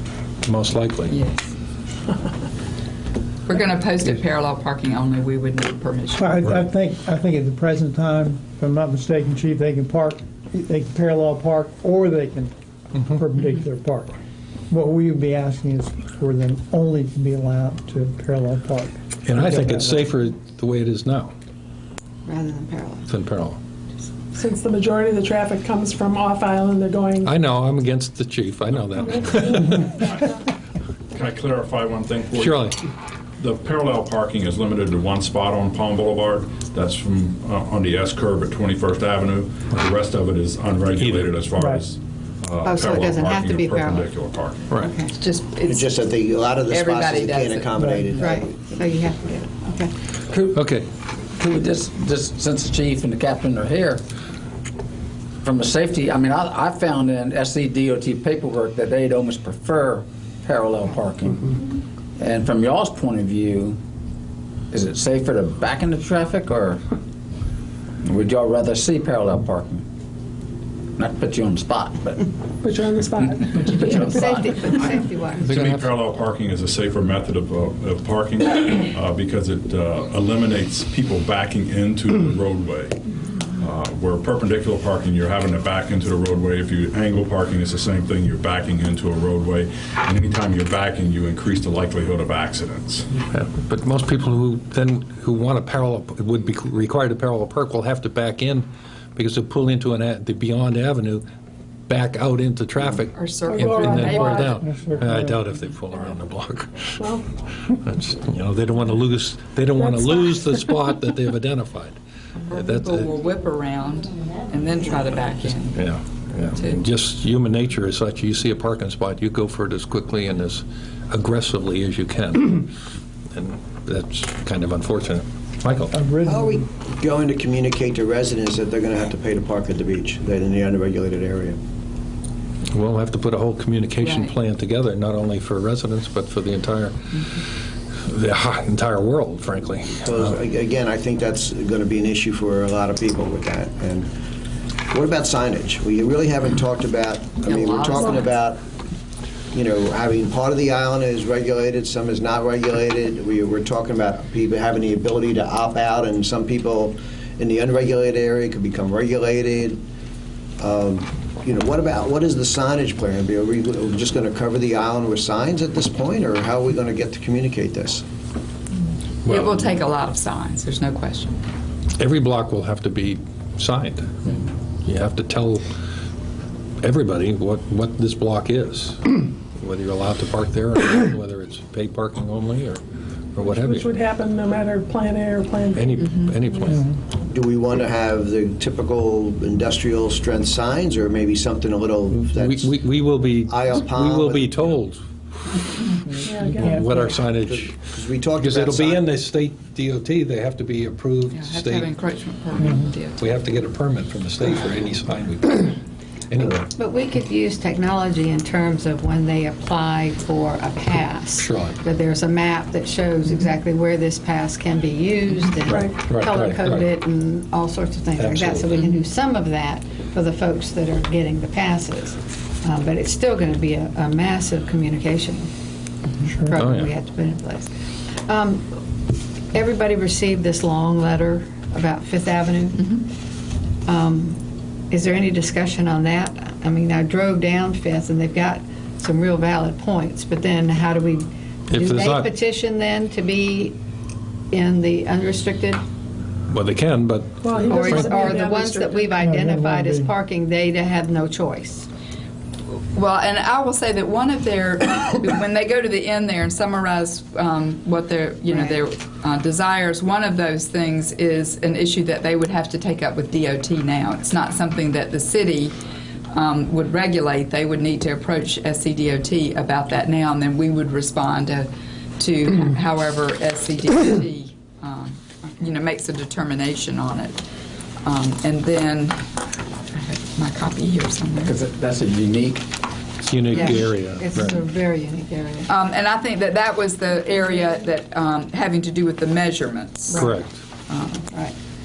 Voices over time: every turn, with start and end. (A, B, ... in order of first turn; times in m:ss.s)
0:00.4-0:01.2 A
0:01.1-0:01.5 B
0:03.4-0:06.6 B
0:06.1-0:14.2 C
0:14.7-0:20.1 C
0:19.2-0:21.3 A
0:22.2-0:23.1 D
0:23.1-0:23.6 A
0:24.3-0:27.3 E
0:27.2-0:30.0 A
0:29.0-0:29.6 E
0:31.1-0:32.6 F
0:32.3-0:32.8 A
0:33.4-0:44.6 F
0:40.9-0:41.4 A
0:41.6-0:41.8 C
0:42.6-0:44.1 D
0:44.8-0:45.1 D
0:45.1-0:45.9 B
0:45.6-0:48.6 G
0:46.7-0:48.2 B
0:47.8-0:48.1 C
0:48.1-0:49.9 D
0:50.3-0:50.6 H
0:50.5-0:50.9 A
0:51.4-0:54.0 H
0:55.4-1:01.6 H
1:02.2-1:03.8 H
1:04.7-1:06.8 H
1:08.0-1:09.8 H
1:11.0-1:12.3 H
1:12.6-1:14.2 E
1:13.6-1:14.1 H
1:13.8-1:15.5 D
1:15.4-1:23.0 F
1:15.4-1:16.0 A
1:23.6-1:33.1 F
1:33.2-1:41.2 A
1:41.9-1:52.0 A
1:43.1-1:44.8 B
1:43.5-1:44.4 E
1:44.6-1:45.4 C
1:49.8-1:50.3 E
1:52.4-1:55.8 B
1:52.5-1:53.1 A
1:55.7-2:02.7 A
1:56.5-1:56.8 B
2:03.3-2:06.0 A
2:05.9-2:06.6 C
2:06.2-2:11.6 G
2:12.7-2:16.9 A
2:14.0-2:14.3 B
2:18.0-2:20.3 A
2:20.0-2:24.1 G
2:24.9-2:28.6 G
2:27.4-2:28.4 B
2:29.5-2:39.8 G
2:40.6-2:48.0 G
2:49.2-2:51.4 B
2:49.3-2:49.5 A
2:52.0-2:55.7 A
2:56.8-3:02.8 A
3:03.3-3:03.9 A
3:03.4-3:05.8 E
3:05.7-3:06.9 A
3:06.0-3:06.4 B
3:06.7-3:07.0 C
3:07.3-3:12.9 G
3:12.1-3:15.0 A
3:13.4-3:14.7 G
3:16.1-3:17.2 C
3:16.3-3:16.9 E
3:16.3-3:17.8 A
3:17.4-3:19.0 G
3:18.4-3:21.9 A
3:21.3-3:23.3 B
3:22.6-3:22.9 C
3:23.1-3:25.7 A
3:26.3-3:26.7 A
3:26.7-3:45.5 D
3:31.4-3:31.8 A
3:35.6-3:36.9 A
3:38.2-3:38.9 A
3:46.3-3:46.6 C
3:46.4-3:48.7 D
3:46.5-3:46.9 A
3:49.5-3:53.0 D
3:53.8-3:54.4 D
3:54.9-4:03.8 D
4:01.7-4:02.3 A
4:04.5-4:05.8 D
4:06.5-4:08.2 A
4:07.4-4:09.2 E
4:07.7-4:11.9 D
4:09.2-4:10.1 C
4:12.9-4:25.7 B
4:26.3-4:37.4 B
4:38.0-4:39.3 B
4:39.9-4:41.6 B
4:41.4-4:42.6 H
4:43.2-4:44.6 A
4:43.5-4:45.7 D
4:45.7-4:50.3 B
4:50.1-4:50.6 A
4:50.9-4:51.2 B